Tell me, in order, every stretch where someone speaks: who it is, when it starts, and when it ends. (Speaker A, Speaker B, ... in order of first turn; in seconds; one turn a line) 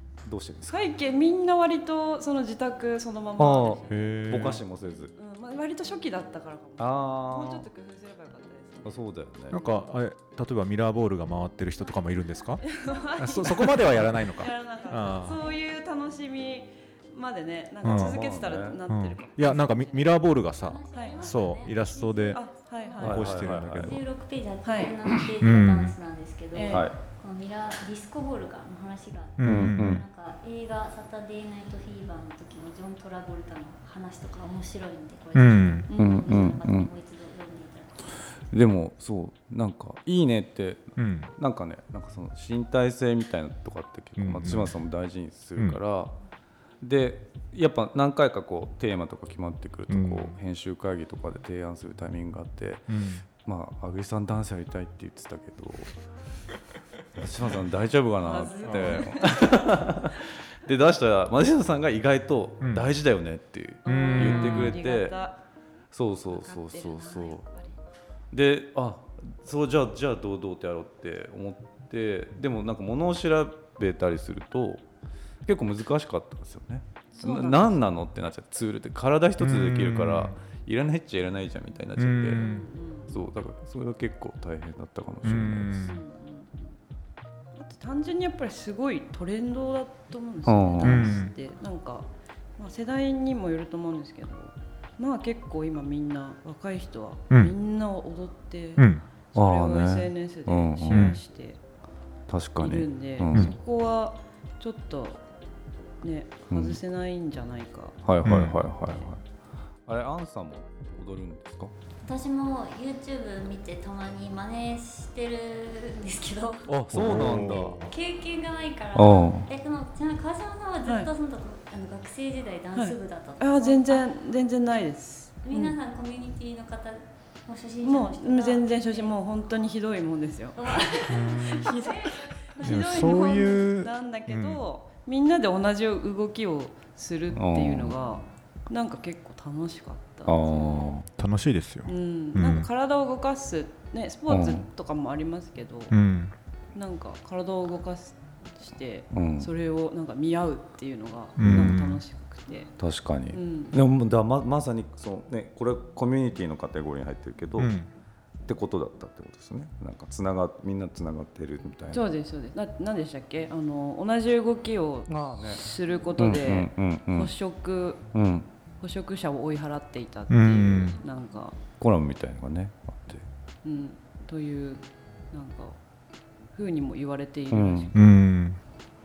Speaker A: 0.2-0.8
Speaker B: 0.7-4.6
Speaker A: 3.4-5.1
Speaker C: 3.9-4.6
Speaker B: 5.2-9.9
Speaker A: 6.8-7.7
Speaker A: 8.8-9.6
Speaker C: 9.5-12.6
Speaker B: 12.6-20.2
Speaker C: 13.2-15.4
Speaker D: 14.9-15.5
Speaker C: 17.8-18.2
Speaker A: 17.8-18.8
Speaker C: 18.9-22.4
Speaker D: 20.6-38.5
Speaker B: 20.9-21.4
Speaker B: 22.3-23.5
Speaker C: 23.0-24.0
Speaker A: 23.0-24.0
Speaker B: 24.6-24.9
Speaker C: 25.4-25.9
Speaker B: 26.5-26.9
Speaker A: 26.7-26.9
Speaker C: 29.4-30.0
Speaker A: 29.4-30.0
Speaker C: 35.3-35.9
Speaker B: 35.9-36.5
Speaker A: 35.9-36.9
Speaker A: 38.5-46.2
Speaker C: 41.0-41.3
Speaker C: 44.2-44.8
Speaker A: 46.8-56.0
Speaker C: 49.9-50.4
Speaker C: 52.9-53.2
Speaker A: 57.1-65.2
Speaker B: 58.2-59.7
Speaker C: 58.7-59.0
Speaker C: 62.6-62.9
Speaker B: 63.8-65.4
Speaker C: 63.9-64.7
Speaker A: 65.9-67.4
Speaker B: 66.2-67.8
Speaker A: 68.3-74.8
Speaker A: 75.4-82.4
Speaker B: 77.1-77.9
Speaker C: 79.4-80.3
Speaker C: 82.0-82.7
Speaker B: 82.3-83.2
Speaker A: 83.1-85.9
Speaker C: 85.2-86.0
Speaker B: 85.8-86.8
Speaker B: 87.5-101.6
Speaker A: 90.5-91.2
Speaker C: 90.8-91.3
Speaker C: 98.8-99.0
Speaker A: 99.3-101.2
Speaker C: 100.8-101.2
Speaker A: 102.3-103.5
Speaker B: 102.6-105.2
Speaker B: 106.0-108.0
Speaker A: 106.5-106.8
Speaker A: 108.0-109.2
Speaker C: 108.2-108.6
Speaker A: 109.8-111.7
Speaker D: 112.0-116.7
Speaker A: 116.7-117.9
Speaker C: 116.9-117.9
Speaker D: 117.4-124.1
Speaker A: 118.9-119.5
Speaker B: 122.7-125.8
Speaker D: 125.4-129.1
Speaker B: 127.8-131.1
Speaker D: 130.6-133.4
Speaker C: 131.1-131.8
Speaker B: 131.8-140.9
Speaker C: 132.6-134.6
Speaker A: 137.3-137.9
Speaker A: 140.3-141.1
Speaker C: 141.2-142.7
Speaker B: 141.8-146.0
Speaker A: 144.3-144.7
Speaker C: 145.9-146.3
Speaker B: 146.7-152.7
Speaker A: 149.1-149.5
Speaker C: 151.4-152.0
Speaker A: 151.4-151.7
Speaker A: 152.8-157.7
Speaker B: 153.3-153.8
Speaker C: 157.6-157.9
Speaker A: 158.4-162.1
Speaker B: 161.9-168.1
Speaker A: 165.1-165.6
Speaker A: 166.2-167.3
Speaker A: 168.1-168.5
Speaker B: 168.8-171.6
Speaker C: 170.3-171.0
Speaker A: 171.8-173.2
Speaker B: 173.6-175.8
Speaker B: 176.5-178.0
Speaker A: 177.5-177.9
Speaker C: 177.9-178.6